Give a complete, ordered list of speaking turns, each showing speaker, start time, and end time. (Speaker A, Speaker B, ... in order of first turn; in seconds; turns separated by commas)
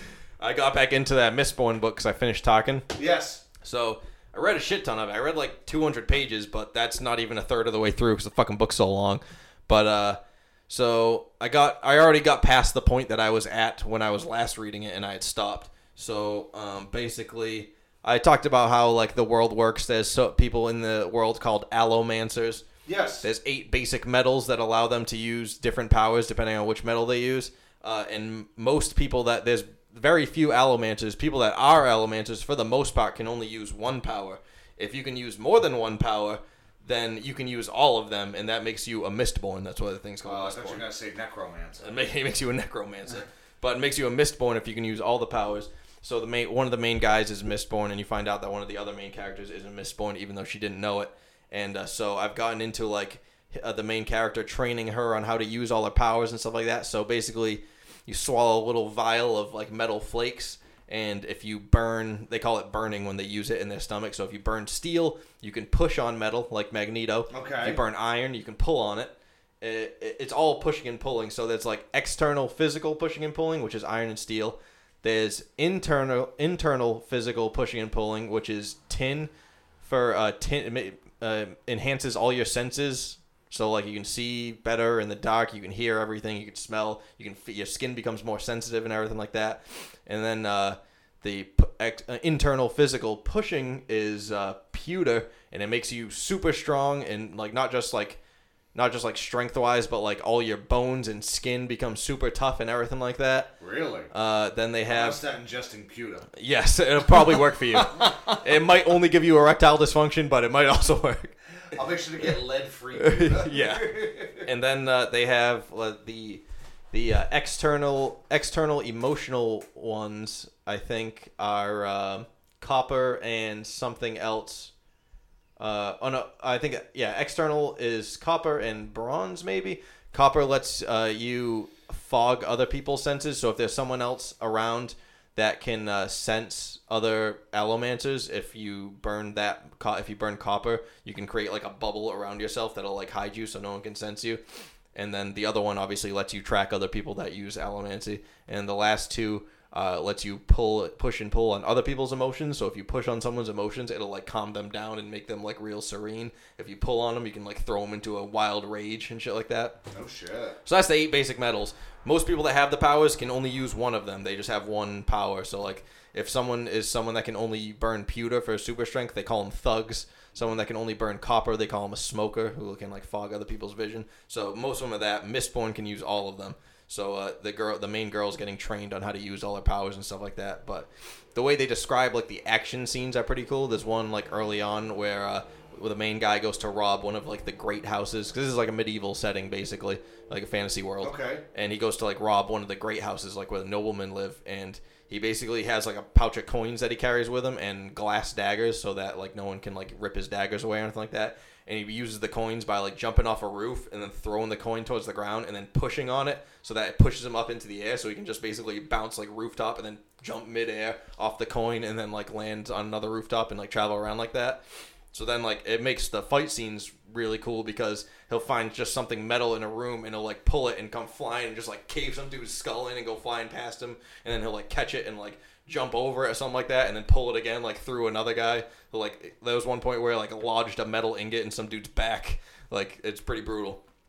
Speaker A: 0.4-2.9, Speaker B: 2.9-3.4, Speaker A: 3.6-22.6, Speaker B: 22.9-23.2, Speaker A: 23.2-40.8, Speaker B: 40.2-41.9, Speaker A: 41.8-79.3, Speaker B: 67.3-67.8, Speaker A: 79.8-98.2, Speaker A: 98.7-103.5, Speaker B: 103.6-104.1, Speaker A: 104.1-105.2, Speaker B: 104.9-106.3, Speaker A: 106.3-111.3, Speaker B: 111.7-114.5, Speaker A: 113.0-124.7, Speaker A: 125.6-144.4, Speaker A: 144.9-159.8, Speaker B: 159.9-160.6, Speaker A: 160.6-214.6, Speaker B: 191.0-191.4, Speaker A: 215.1-233.8